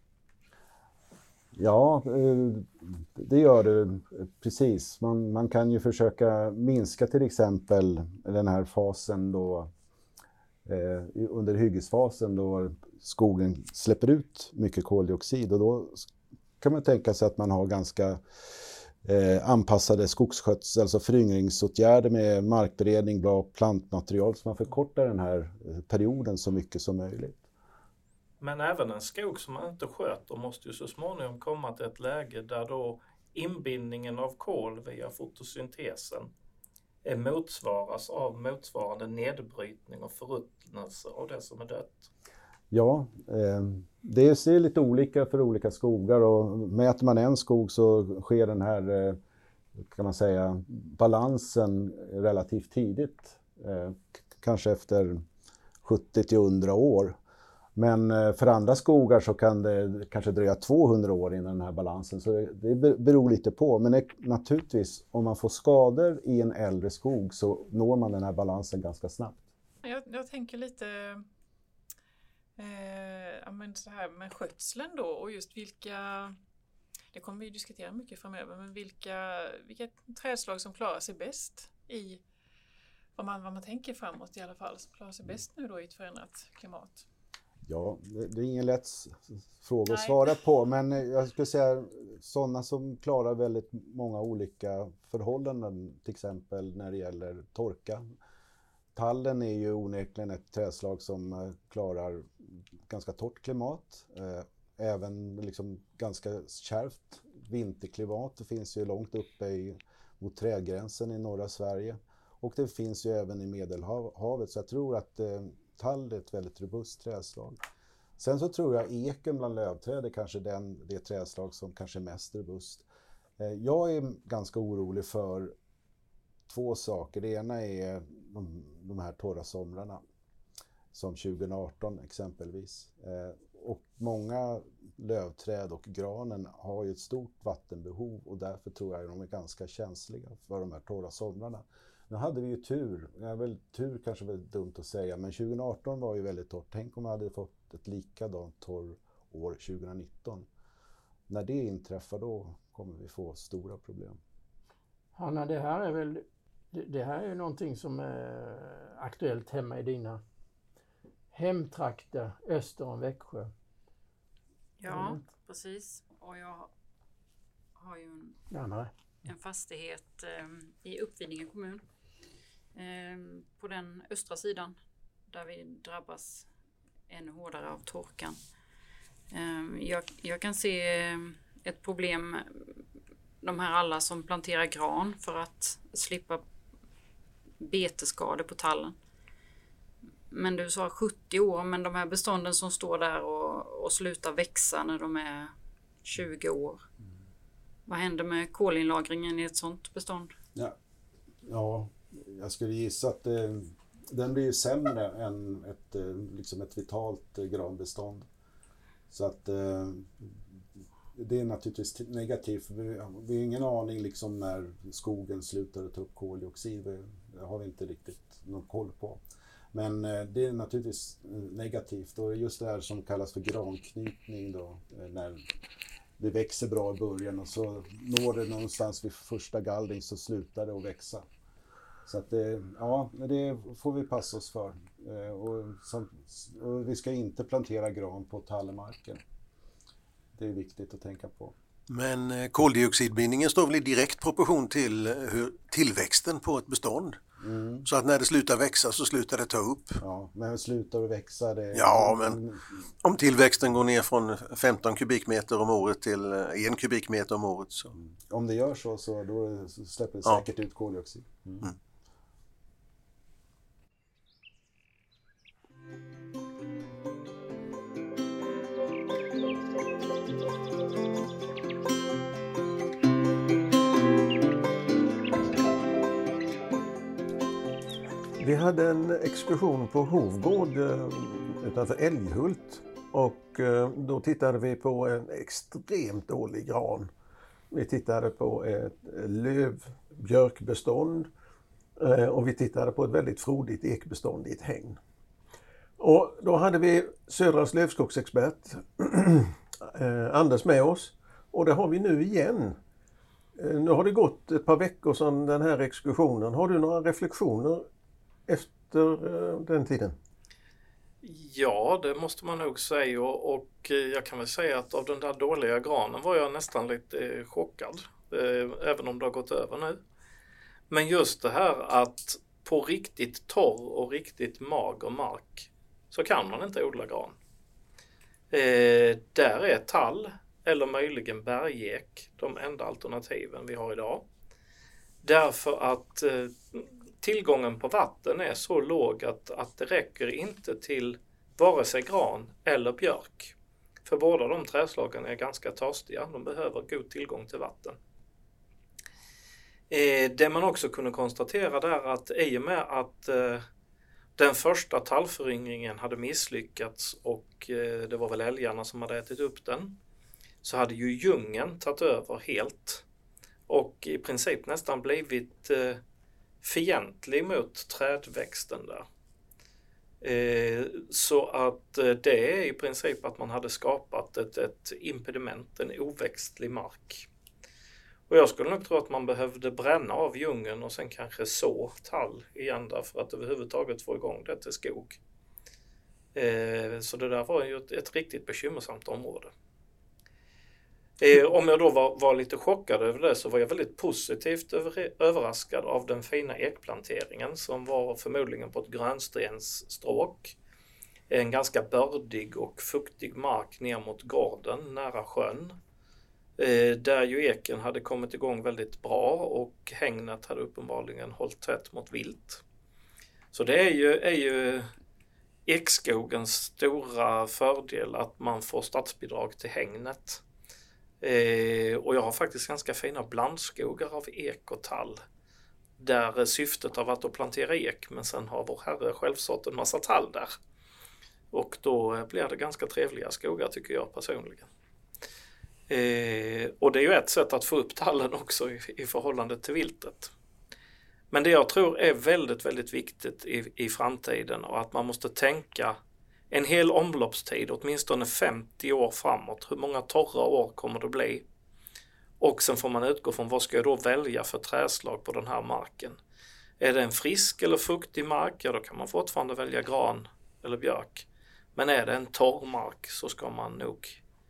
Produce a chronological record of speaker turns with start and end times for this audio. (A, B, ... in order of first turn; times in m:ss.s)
0:01.6-0:09.7 A
0:10.6-0:16.1 A
0:16.6-0:18.2 A
0:19.0-0:27.4 A
0:28.4-0:36.3 B
0:37.0-0:42.1 B
0:42.7-0:49.2 A
0:49.9-0:55.2 A
0:55.8-0:57.2 A
0:57.8-1:09.5 A
1:09.8-1:11.2 C
1:12.6-1:16.4 C
1:17.1-1:22.2 C
1:23.2-1:27.0 C
1:27.6-1:38.1 A
1:29.9-1:30.2 C
1:38.9-1:57.6 A
1:58.2-2:02.9 A
2:03.4-2:05.6 A
2:06.5-2:10.0 A
2:10.9-2:30.5 A
2:31.3-2:34.2 A
2:35.2-2:40.2 D
2:41.3-2:43.5 D
2:44.8-2:46.7 E
2:44.9-2:45.2 D
2:47.8-2:48.4 E
2:48.5-2:48.9 D
2:49.2-2:51.8 E
2:52.8-2:54.8 E
2:55.3-2:56.5 E
2:57.1-2:58.4 E
2:59.3-3:02.6 E
3:03.4-3:06.4 E
3:07.6-3:08.9 E
3:10.3-3:15.5 E
3:16.0-3:16.8 E
3:17.9-3:20.3 E
3:21.4-3:28.3 A
3:29.1-3:30.6 A
3:31.1-3:45.4 A
3:46.2-3:51.3 A
3:52.1-3:59.2 A
4:00.3-4:01.6 A
4:01.9-4:07.2 F
4:07.4-4:07.8 A
4:07.8-4:10.0 F
4:10.0-4:12.6 A
4:11.7-4:12.4 F
4:13.0-4:17.9 F
4:18.2-4:21.7 A
4:38.4-4:47.1 F
4:47.7-4:51.3 F
4:52.0-4:55.0 F
4:56.0-5:02.8 F
5:03.6-5:07.9 F
5:08.5-5:10.2 F
5:11.2-5:20.0 B
5:20.9-5:27.4 B
5:28.5-5:34.2 B
5:35.2-5:43.5 B
5:44.0-5:48.0 B
5:49.9-5:53.6 B
5:54.4-6:00.0 B
6:00.6-6:03.0 B
6:03.7-6:06.0 B
6:06.6-6:09.0 B
6:10.2-6:17.3 B
6:18.3-6:25.2 B
6:26.3-6:29.5 B
6:31.2-6:40.6 B
6:41.3-6:45.8 B
6:46.6-6:52.6 B
6:53.5-6:54.9 B
6:55.6-7:00.4 B
7:01.2-7:05.2 B
7:06.0-7:10.5 B
7:11.5-7:14.7 B
7:15.9-7:20.3 B
7:21.3-7:26.0 B
7:26.5-7:31.4 B
7:32.4-7:36.2 B
7:36.8-7:44.2 B